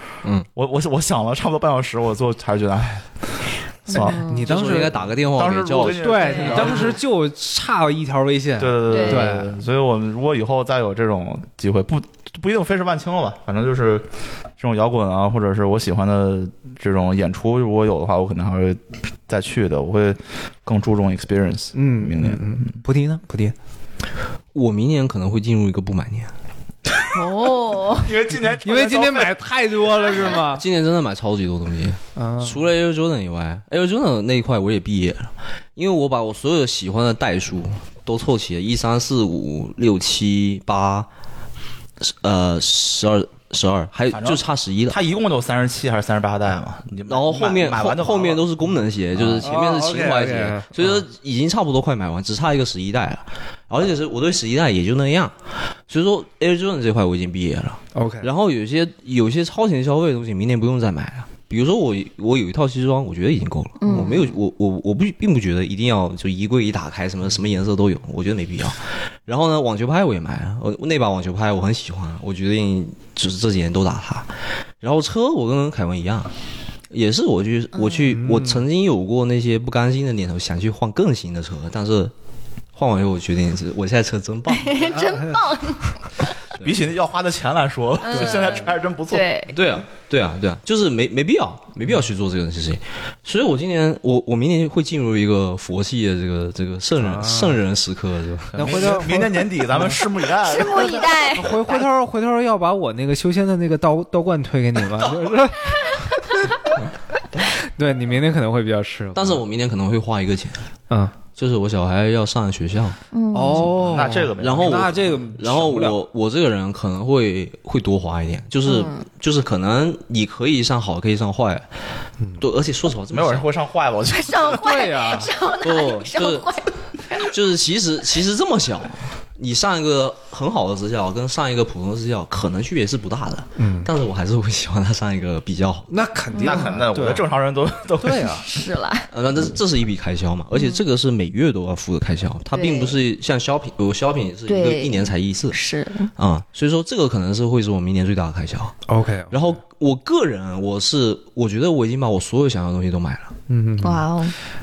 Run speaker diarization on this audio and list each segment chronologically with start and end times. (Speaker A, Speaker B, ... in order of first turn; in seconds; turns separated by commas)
Speaker A: 0.5-4.2, Speaker B: 3.9-4.5, Speaker C: 4.0-5.0, Speaker D: 4.4-6.9, Speaker A: 4.8-6.9, Speaker C: 5.9-9.5, Speaker B: 6.2-6.7, Speaker A: 8.6-14.1, Speaker B: 8.9-9.4, Speaker A: 14.6-22.8, Speaker C: 21.7-23.5, Speaker D: 24.5-26.3, Speaker B: 27.1-28.2, Speaker A: 28.0-29.3, Speaker C: 28.6-30.6, Speaker D: 30.3-41.1, Speaker C: 32.1-32.6, Speaker D: 42.0-45.0, Speaker A: 44.1-48.4, Speaker D: 47.1-76.3, Speaker C: 49.2-51.0, Speaker C: 57.9-58.3, Speaker B: 63.8-64.4, Speaker D: 76.9-82.1, Speaker B: 77.7-78.1, Speaker C: 78.1-78.6, Speaker D: 82.7-85.1, Speaker B: 84.5-86.1, Speaker C: 85.0-85.4, Speaker A: 86.6-89.3, Speaker B: 88.0-89.6, Speaker D: 89.5-98.9, Speaker C: 97.0-97.6, Speaker A: 98.5-101.0, Speaker C: 98.5-100.0, Speaker B: 100.4-101.8, Speaker C: 101.2-106.4, Speaker C: 107.6-109.4, Speaker D: 109.1-110.7, Speaker C: 110.9-111.1, Speaker D: 111.3-113.0, Speaker B: 113.1-113.7, Speaker C: 113.3-116.0, Speaker A: 113.8-115.2, Speaker D: 114.4-121.7, Speaker B: 118.6-119.0, Speaker D: 122.4-123.5, Speaker A: 123.1-124.6, Speaker B: 124.1-127.2, Speaker C: 124.6-125.3, Speaker D: 125.6-126.5, Speaker D: 127.2-135.9, Speaker C: 133.6-133.9, Speaker C: 135.9-137.2, Speaker B: 136.3-136.8, Speaker A: 136.4-138.4, Speaker C: 138.0-138.4, Speaker B: 138.4-139.1, Speaker D: 139.1-145.6, Speaker B: 140.5-140.8, Speaker B: 142.5-143.0, Speaker B: 144.5-146.1, Speaker D: 146.2-148.8, Speaker C: 148.9-149.4, Speaker D: 149.3-153.3, Speaker C: 153.5-154.0, Speaker B: 153.8-154.4